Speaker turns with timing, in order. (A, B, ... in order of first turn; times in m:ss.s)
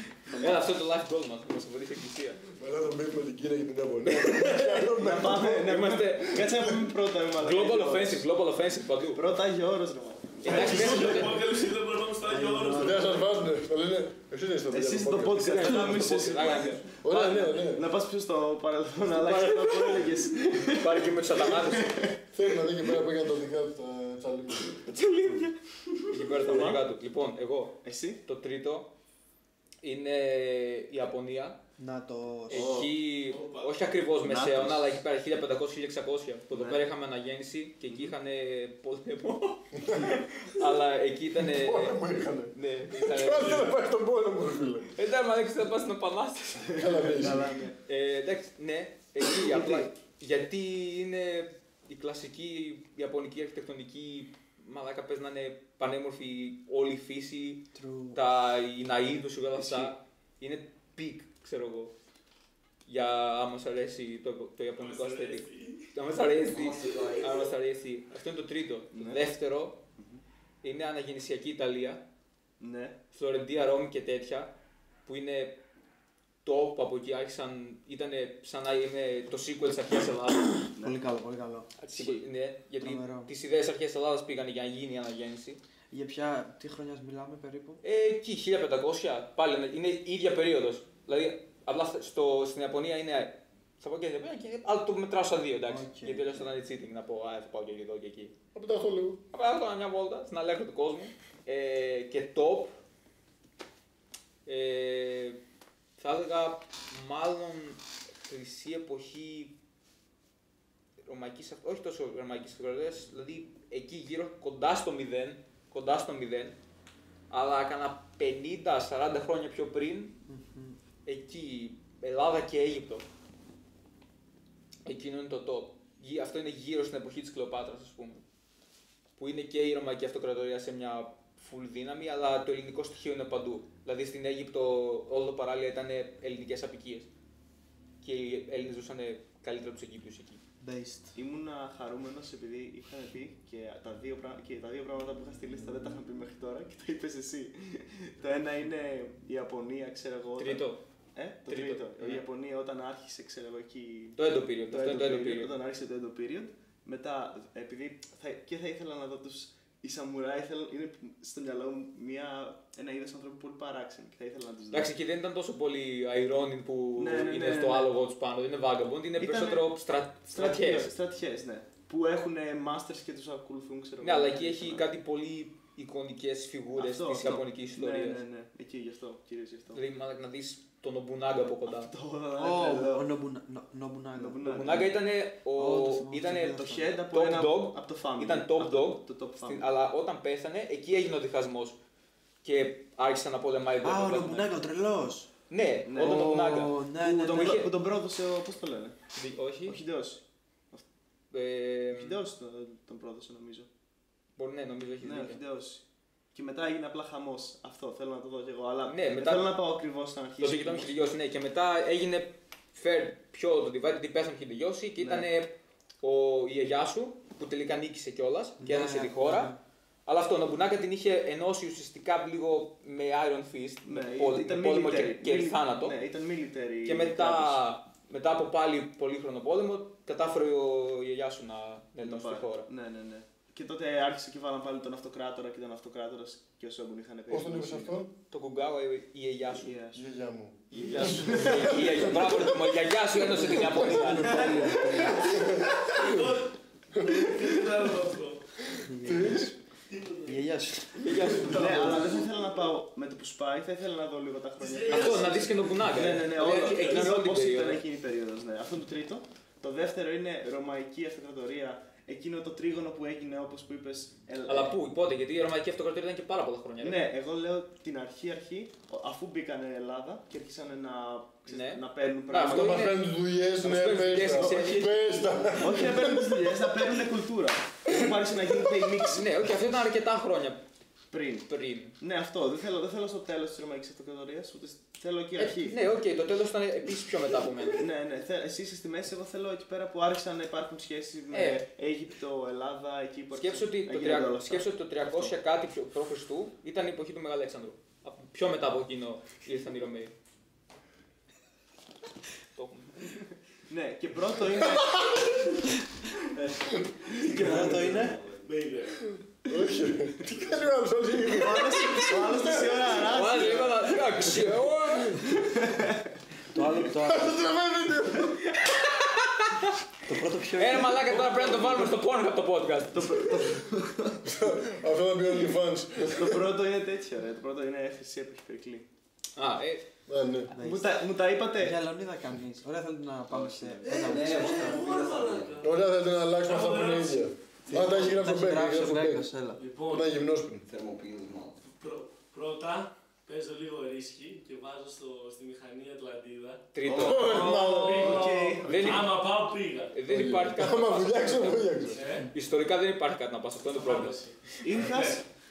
0:00.3-0:00.6 A
0:00.3-0:02.4 B
0:02.5-0:05.7 C
0:04.1-0:04.8 B
0:04.9-0:08.2 A
0:05.5-0:06.7 B
0:07.4-0:09.2 B
0:09.1-0:11.4 A
0:10.4-0:11.5 B
0:10.4-0:13.2 D
0:12.3-0:13.0 E
0:12.8-0:15.7 C
0:14.7-0:16.9 A
0:15.3-0:17.6 B
0:17.0-0:17.8 C
0:17.5-0:22.2 A
0:19.0-0:22.1 B
0:22.3-0:24.8 C
0:24.9-0:25.5 B
0:26.1-0:28.9 B
0:26.2-0:26.8 A
0:27.8-0:28.2 A
0:29.8-0:31.6 B
0:31.8-0:32.7 E
0:32.5-0:42.0 B
0:32.5-0:33.0 A
0:33.3-0:33.7 D
0:34.2-0:35.0 A
0:36.5-0:36.8 A
0:37.9-0:38.1 A
0:39.8-0:40.2 C
0:41.4-0:44.9 C
0:42.5-0:43.8 B
0:44.9-0:47.0 B
0:46.7-0:47.5 C
0:46.8-0:47.8 A
0:47.8-1:01.9 B
0:49.2-0:49.9 A
0:57.7-0:58.2 E
0:59.6-0:59.9 A
1:02.8-1:09.8 B
1:04.8-1:05.9 D
1:06.4-1:07.5 F
1:08.9-1:09.2 A
1:10.0-1:10.2 A
1:10.6-1:12.0 B
1:12.6-1:13.0 A
1:13.1-1:14.5 B
1:15.0-1:15.6 B
1:16.4-1:20.6 B
1:20.6-1:21.7 E
1:21.8-1:25.6 B
1:21.9-1:22.2 A
1:22.8-1:23.3 E
1:25.9-1:27.8 E
1:27.8-1:38.3 B
1:35.6-1:36.5 E
1:38.5-1:39.2 C
1:39.3-1:42.7 B
1:44.4-1:45.4 B
1:46.0-1:49.6 B
1:51.0-1:56.6 B
1:57.3-2:00.2 B
2:00.3-2:00.8 E
2:01.0-2:03.0 B
2:04.8-2:08.2 B
2:09.2-2:17.1 B
2:18.0-2:20.4 B
2:20.6-2:21.2 E
2:21.1-2:34.2 A
2:30.4-2:30.8 B
2:31.5-2:32.2 B
2:34.2-2:35.5 B
2:34.7-2:44.9 A
2:44.7-2:50.9 B
2:47.0-2:47.9 A
2:49.2-2:49.7 A
2:50.3-2:54.9 A
2:54.0-2:58.2 B
2:56.8-2:59.8 A
2:59.7-3:01.9 B
3:01.6-3:03.1 A
3:02.4-3:04.7 E
3:04.2-3:04.9 A
3:04.4-3:11.8 B
3:05.6-3:06.9 E
3:06.6-3:09.6 A
3:12.4-3:14.5 B
3:13.8-3:15.3 E
3:15.5-3:17.7 B
3:15.8-3:19.0 A
3:16.0-3:17.7 E
3:19.2-3:19.8 B
3:19.6-3:20.8 A
3:21.3-3:22.2 B
3:21.9-3:23.7 A
3:24.4-3:25.4 B
3:25.0-3:31.1 A
3:28.9-3:29.5 B
3:30.4-3:39.5 B
3:35.0-3:35.3 A
3:38.6-3:39.6 E
3:40.0-3:46.0 B
3:43.8-3:47.6 A
3:46.8-3:52.7 B
3:52.0-3:57.9 A
3:57.3-3:58.1 C
3:58.3-3:59.8 B
3:59.5-4:00.0 A
3:59.9-4:02.6 C
4:00.7-4:04.6 B
4:00.8-4:02.0 A
4:03.2-4:05.4 E
4:03.3-4:04.4 C
4:04.2-4:05.2 A
4:05.0-4:08.5 D
4:05.1-4:06.4 C
4:06.9-4:07.6 C
4:08.8-4:09.5 E
4:08.8-4:09.5 C
4:09.9-4:10.4 D
4:10.2-4:12.0 E
4:11.0-4:12.1 B
4:11.4-4:24.7 A
4:14.6-4:15.7 D
4:14.9-4:17.8 B
4:16.6-4:17.0 D
4:24.4-4:27.0 B
4:26.8-4:32.9 A
4:31.5-4:33.0 B
4:32.5-4:36.7 C
4:33.6-4:35.2 B
4:34.3-4:39.2 A
4:39.0-4:40.6 B
4:41.1-4:41.5 A
4:41.5-4:42.0 B
4:42.0-4:45.8 A
4:45.4-4:47.8 B
4:47.8-4:55.3 A
4:51.3-4:51.6 B
4:53.3-5:00.1 B
5:02.5-5:03.1 B
5:03.7-5:05.4 A
5:06.1-5:06.5 A
5:07.1-5:07.6 A
5:07.2-5:09.0 D
5:07.3-5:08.2 E
5:07.8-5:08.4 F
5:09.4-5:12.5 C
5:11.3-5:14.1 A
5:12.9-5:15.4 B
5:15.4-5:16.0 A
5:16.5-5:17.4 E
5:16.9-5:18.4 C
5:18.5-5:19.8 B
5:20.0-5:21.1 E
5:20.6-5:23.5 B
5:21.1-5:21.9 D
5:22.9-5:24.2 A
5:24.2-5:26.5 C
5:26.0-5:28.9 A
5:29.4-5:29.8 B
5:30.1-5:30.5 C
5:30.5-5:30.9 E
5:30.6-5:31.8 A
5:31.6-5:34.8 E
5:33.3-5:34.0 A
5:33.8-5:37.2 D
5:33.9-5:35.6 F
5:35.6-5:39.3 C
5:37.7-5:39.6 E
5:39.6-5:40.1 D
5:39.9-5:40.7 C
5:40.6-5:41.6 F
5:41.6-5:46.7 D
5:46.7-5:47.6 B
5:46.8-5:49.1 A
5:46.9-5:48.3 C
5:47.2-5:48.6 E
5:47.7-5:50.0 D
5:48.6-5:49.2 B
5:49.9-5:54.1 B
5:50.1-5:52.0 C
5:51.9-5:52.3 D
5:53.6-5:55.2 D
5:54.6-5:55.2 A